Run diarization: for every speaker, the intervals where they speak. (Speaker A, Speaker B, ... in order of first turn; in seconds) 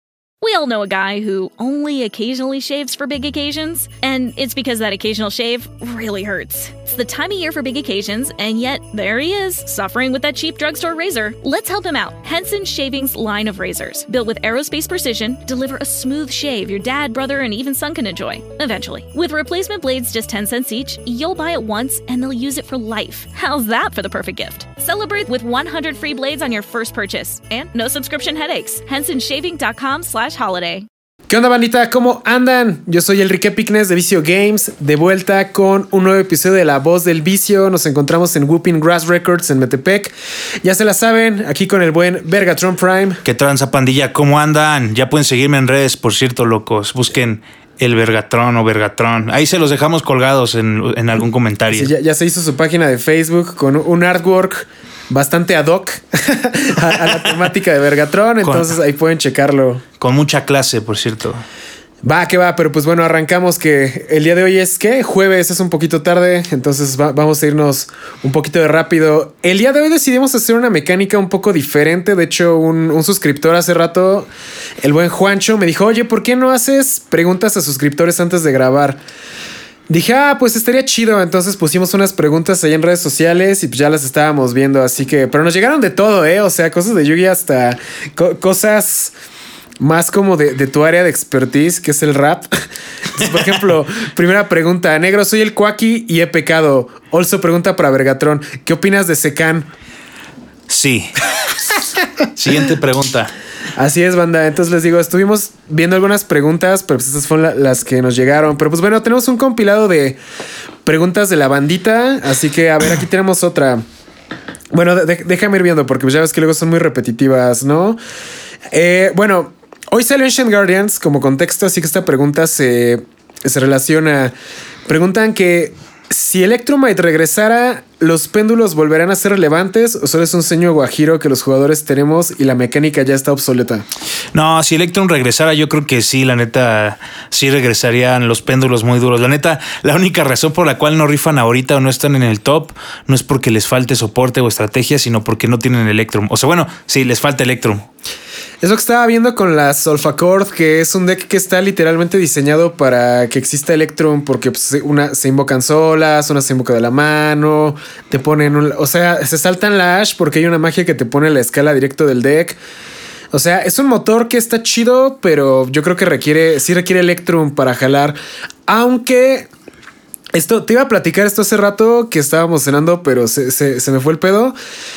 Speaker A: 0.4-30.9
Speaker B: 31.3-43.2, 51.7-59.8, 62.0-74.3, 74.8-79.0, 79.9-89.1, 89.8-92.5, 93.1-99.7, 103.8-110.2, 110.8-113.8, 114.7-118.0, 118.7-124.3, 124.8-133.8, 148.6-162.6, 163.3-169.5, 170.3-174.5
Speaker C: 43.2-51.9, 57.1-57.3, 58.4-58.7, 60.0-61.4, 100.7-101.3, 102.3-103.3, 134.3-147.9